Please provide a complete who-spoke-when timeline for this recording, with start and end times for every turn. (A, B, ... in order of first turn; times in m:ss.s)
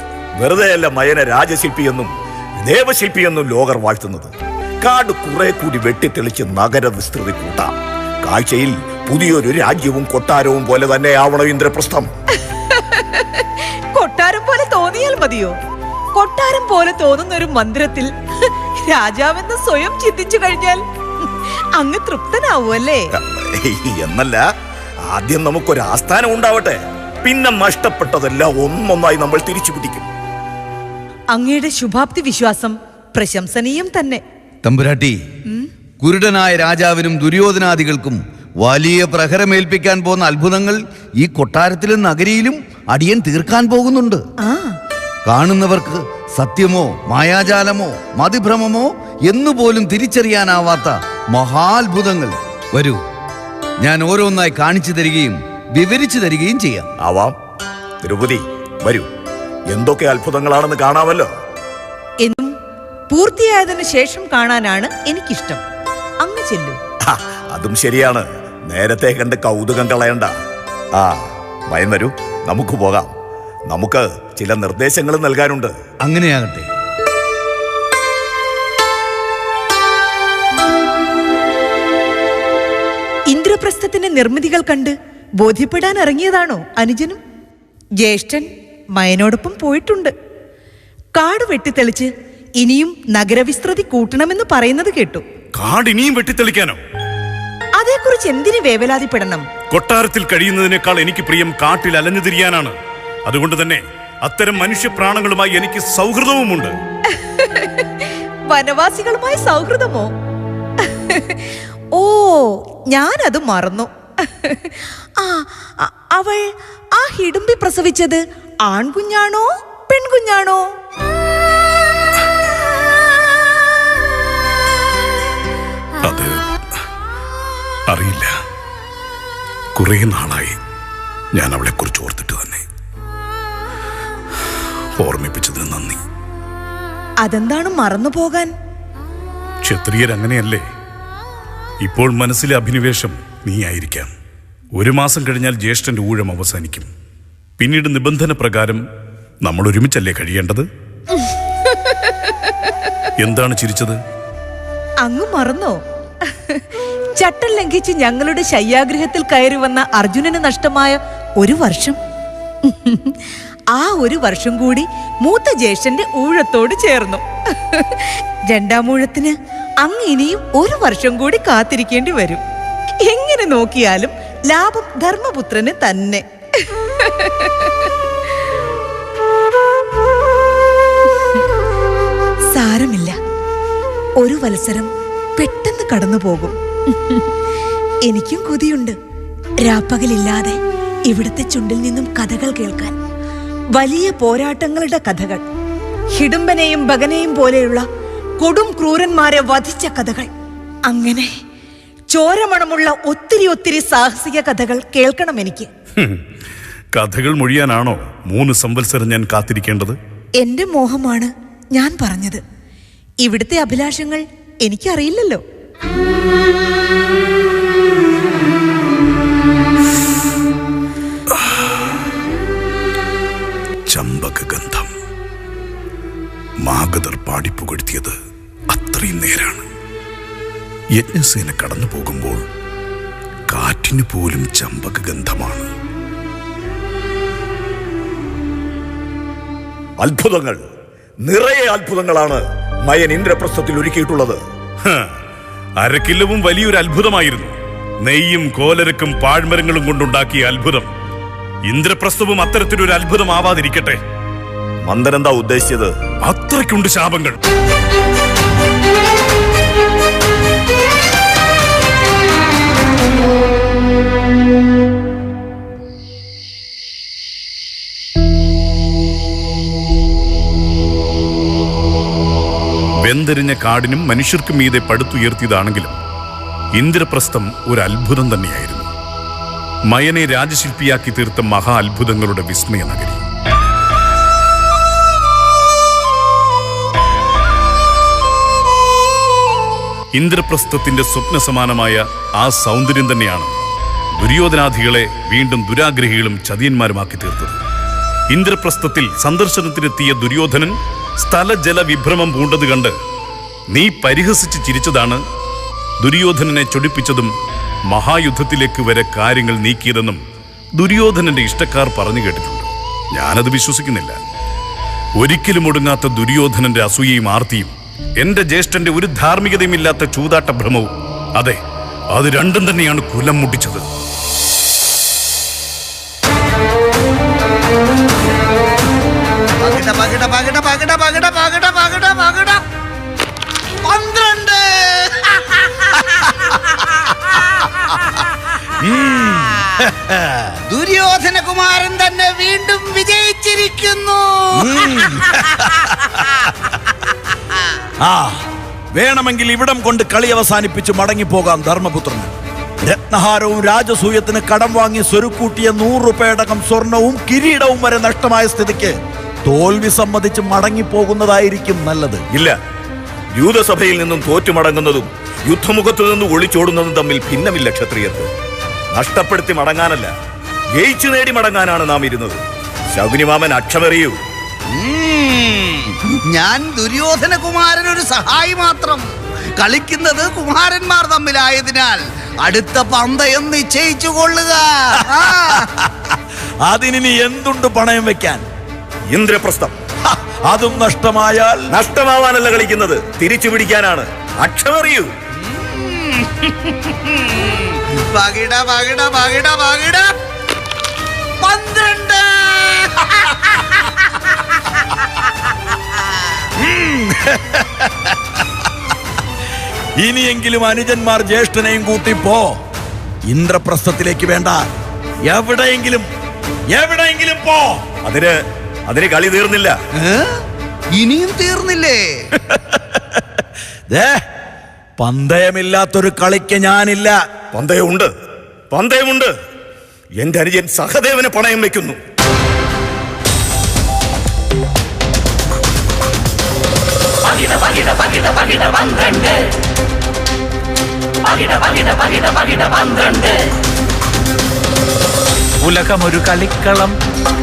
0:00.4-0:12.1 A
0:12.5-0:15.6 B
0:16.1-0:23.1 B
0:23.2-0:24.4 A
0:25.0-0:30.1 A
0:31.3-0:34.2 B
0:34.6-0:35.2 C
0:36.0-0:44.2 C
0:44.4-0:44.8 B
0:45.2-0:53.0 C
0:53.8-0:56.9 C
0:57.0-0:57.4 A
0:58.0-0:59.1 A
0:59.7-1:01.3 A
1:02.2-1:02.5 B
1:03.1-1:05.6 B
1:06.2-1:06.8 B
1:07.0-1:10.3 A
1:10.9-1:13.1 A
1:13.7-1:15.7 A
1:16.0-1:16.7 C
1:23.3-1:27.2 B
1:28.0-1:30.1 B
1:31.1-1:35.2 B
1:35.6-1:36.8 D
1:37.8-1:39.5 B
1:39.7-1:42.7 D
1:43.2-1:46.7 D
1:47.1-1:50.1 B
1:50.8-2:00.6 B
2:06.0-2:06.4 D
2:07.9-2:08.3 D
2:09.8-2:10.6 D
2:11.3-2:12.6 D
2:15.0-2:16.0 D
2:17.2-2:18.5 B
2:19.6-2:20.6 D
2:21.8-2:24.1 D
2:24.7-2:26.9 D
2:27.6-2:28.8 D
2:29.4-2:30.6 D
2:31.9-2:32.2 B
2:33.2-2:34.0 D
2:35.0-2:42.0 B
2:42.6-2:43.2 B
2:43.7-2:52.4 B
2:53.0-2:57.9 B
3:02.5-3:03.2 B
3:04.2-3:07.3 B
3:08.0-3:09.0 B
3:09.6-3:12.9 B
3:13.7-3:15.4 B
3:16.2-3:17.9 B
3:18.4-3:20.3 B
3:20.9-3:21.3 B
3:22.1-3:25.7 B
3:26.0-3:26.2 D
3:26.9-3:30.0 D
3:30.4-3:32.4 B
3:33.2-3:35.4 B
3:41.3-3:41.6 D
3:43.9-3:44.9 D
3:46.6-3:48.1 D
3:48.7-3:49.6 D
3:51.0-3:52.4 D
3:53.5-3:55.7 D
4:00.0-4:00.6 A
4:01.2-4:04.4 A
4:04.8-4:05.1 D
4:05.8-4:10.9 D
4:11.7-4:14.0 D
4:14.8-4:15.9 A
4:16.2-4:17.4 D
4:33.0-4:35.9 D
4:36.8-4:38.9 D
4:39.9-4:43.2 D
4:50.1-4:53.5 D
4:54.2-4:57.6 D
4:58.3-5:02.9 D
5:03.7-5:05.2 D
5:06.0-5:07.3 D
5:07.9-5:10.2 D
5:10.8-5:14.2 D
5:15.2-5:21.6 D
5:22.1-5:23.8 D
5:29.6-5:32.6 C
5:33.8-5:38.3 C
5:38.9-5:39.7 C
5:40.0-5:40.5 E
5:40.7-5:46.1 C
5:44.6-5:45.5 E
5:48.0-5:48.4 E
5:48.9-6:02.2 E
6:02.3-6:02.6 A
6:03.3-6:08.3 A
6:08.9-6:10.1 A
6:10.7-6:12.4 A
6:12.9-6:14.2 A
6:14.7-6:25.7 C
6:26.6-6:28.4 E
6:29.1-6:29.8 A
6:30.5-6:31.6 E
6:31.7-6:35.1 A
6:35.4-6:40.1 C
6:41.4-6:44.0 C
6:46.6-6:48.1 E
6:50.0-6:52.5 E
6:53.3-6:54.6 E
6:55.3-6:56.0 E
6:56.7-6:57.8 E
6:58.0-6:59.8 A
7:00.0-7:00.4 C
7:01.0-7:02.1 C
7:03.9-7:04.2 E
7:05.0-7:07.2 E
7:07.5-7:08.1 A
7:08.7-7:09.3 A
7:10.2-7:12.0 A
7:17.4-7:19.3 F
7:21.3-7:23.3 F
7:25.6-7:26.9 F